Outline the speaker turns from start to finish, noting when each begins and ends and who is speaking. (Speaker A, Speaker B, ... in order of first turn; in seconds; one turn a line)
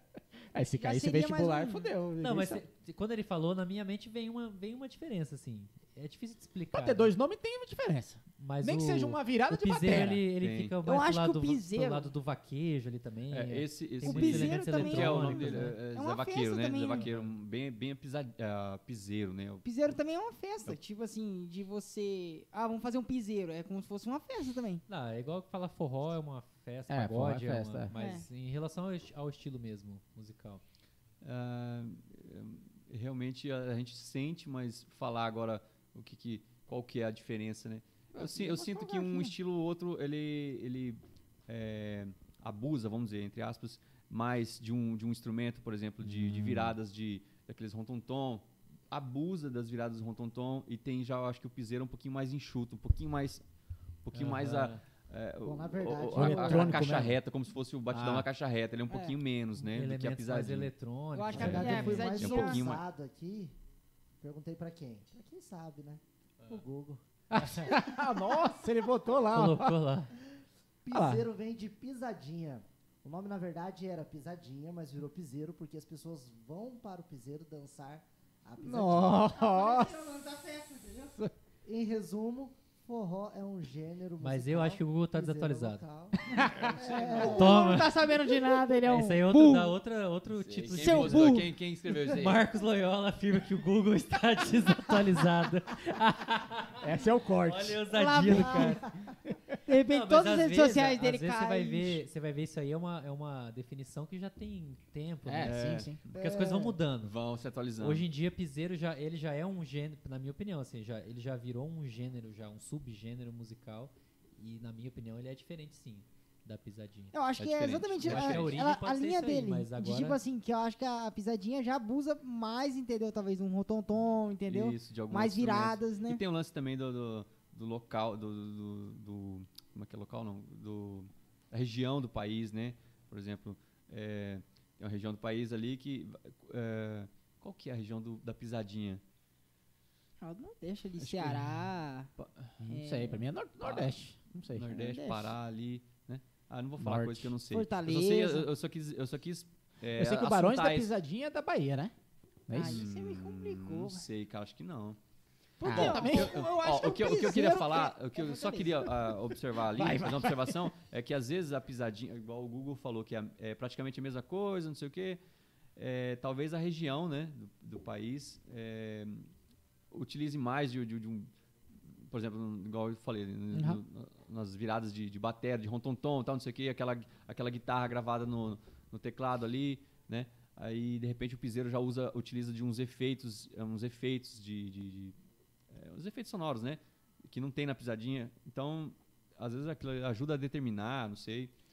Speaker A: 0.5-2.6
Speaker B: 0.8-1.9
Speaker C: 2.2-7.1
Speaker A: 6.7-10.2
Speaker C: 8.4-15.8
Speaker D: 10.4-10.8
Speaker B: 10.8-12.1
Speaker D: 13.3-19.7
Speaker B: 14.0-17.1
Speaker C: 16.9-17.3
Speaker B: 19.6-24.8
Speaker C: 24.9-30.6
Speaker A: 26.9-27.9
Speaker B: 27.9-28.2
Speaker D: 31.2-53.4
Speaker A: 38.1-39.3
Speaker A: 46.0-46.8
Speaker D: 54.0-60.7
Speaker C: 54.1-54.8
Speaker E: 55.4-56.9
Speaker A: 56.1-57.2
Speaker A: 57.9-58.3
Speaker B: 58.9-59.2
Speaker C: 59.6-62.1
Speaker B: 61.1-62.7
Speaker E: 61.3-63.6
Speaker D: 61.4-62.9
Speaker E: 64.2-68.5
Speaker A: 67.3-69.8
Speaker C: 69.3-70.1
Speaker E: 70.8-79.2
Speaker A: 70.9-71.3
Speaker A: 78.6-80.0
Speaker B: 79.0-81.1
Speaker E: 81.6-87.7
Speaker C: 84.2-85.8
Speaker A: 86.2-89.3
Speaker C: 87.1-88.2
Speaker B: 87.8-89.7
Speaker C: 88.8-96.8
Speaker D: 90.3-92.4
Speaker B: 90.7-91.5
Speaker A: 96.8-97.8
Speaker C: 97.4-98.8
Speaker B: 97.9-98.8
Speaker E: 98.5-98.8
Speaker B: 99.7-102.0
Speaker C: 99.7-107.2
Speaker A: 105.3-106.0
Speaker D: 105.4-106.2
Speaker E: 106.1-106.8
Speaker D: 107.0-108.1
Speaker C: 107.8-117.2
Speaker B: 117.1-126.2
Speaker D: 117.4-118.5
Speaker C: 118.0-120.2
Speaker D: 124.5-139.0
Speaker B: 140.2-142.1
Speaker D: 141.0-141.6
Speaker D: 142.2-142.6
Speaker A: 142.6-144.7
Speaker B: 142.7-143.2
Speaker D: 143.6-144.0
Speaker D: 144.5-150.9
Speaker B: 144.6-145.3
Speaker A: 146.8-147.3
Speaker B: 147.5-148.5
Speaker A: 150.0-151.9
Speaker A: 152.5-152.9
Speaker B: 152.5-154.1
Speaker D: 152.6-155.0
Speaker B: 155.6-159.2
Speaker A: 155.6-156.4
Speaker D: 155.6-165.2
Speaker A: 159.8-160.7
Speaker D: 165.8-169.3
Speaker D: 169.9-171.3
Speaker D: 171.9-185.2
Speaker A: 173.5-173.8
Speaker D: 185.7-191.5